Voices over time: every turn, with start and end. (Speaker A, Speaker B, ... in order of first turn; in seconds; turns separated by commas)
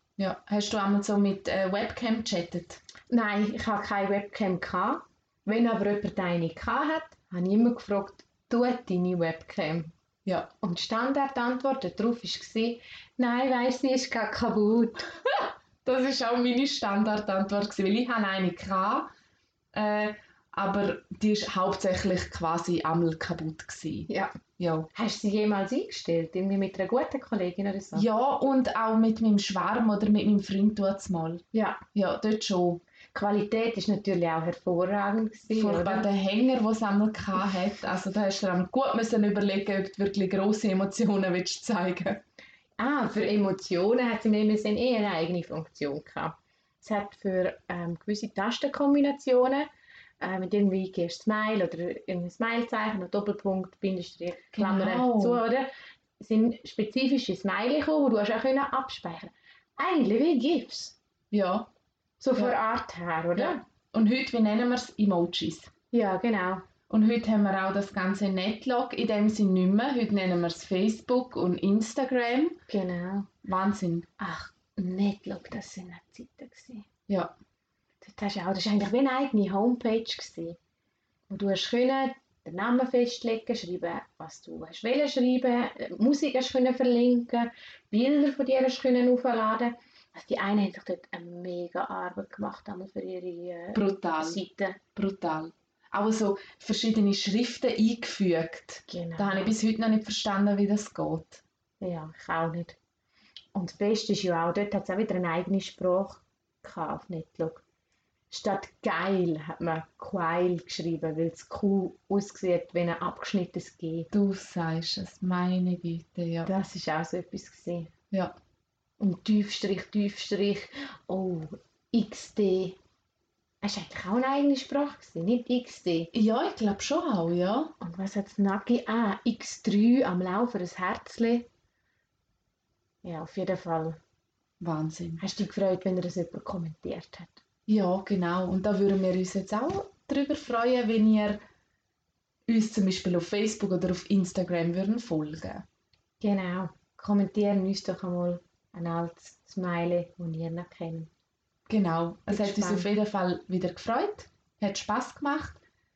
Speaker A: 0.2-2.8, Speaker B: 3.1-9.9, Speaker A: 10.3-10.5, Speaker B: 10.6-15.1, Speaker A: 15.3-19.1, Speaker A: 19.7-24.9, Speaker B: 24.9-28.1, Speaker A: 27.9-32.8, Speaker B: 31.5-31.8, Speaker B: 33.1-36.1, Speaker A: 35.5-42.2, Speaker B: 42.8-49.7, Speaker B: 50.2-61.0, Speaker A: 54.5-55.4, Speaker A: 61.3-61.7, Speaker B: 62.2-63.6, Speaker A: 63.4-65.7, Speaker B: 65.9-66.7, Speaker A: 66.9-72.6, Speaker B: 72.7-73.3, Speaker A: 73.4-74.1, Speaker B: 74.2-76.9, Speaker A: 77.1-77.3, Speaker B: 78.0-80.6, Speaker B: 81.3-94.8, Speaker A: 93.7-94.4, Speaker A: 95.0-101.4, Speaker B: 98.9-99.6, Speaker B: 101.8-102.8, Speaker B: 103.5-107.6, Speaker B: 108.3-114.1, Speaker A: 114.1-116.5, Speaker B: 116.5-117.9, Speaker B: 119.0-122.8, Speaker B: 123.6-126.1, Speaker A: 126.1-127.7, Speaker B: 127.8-131.5, Speaker B: 133.0-134.0, Speaker A: 134.6-135.2, Speaker B: 135.2-137.4, Speaker A: 137.7-141.4, Speaker A: 142.5-145.7, Speaker B: 146.2-151.1, Speaker A: 151.7-155.6, Speaker B: 152.3-152.9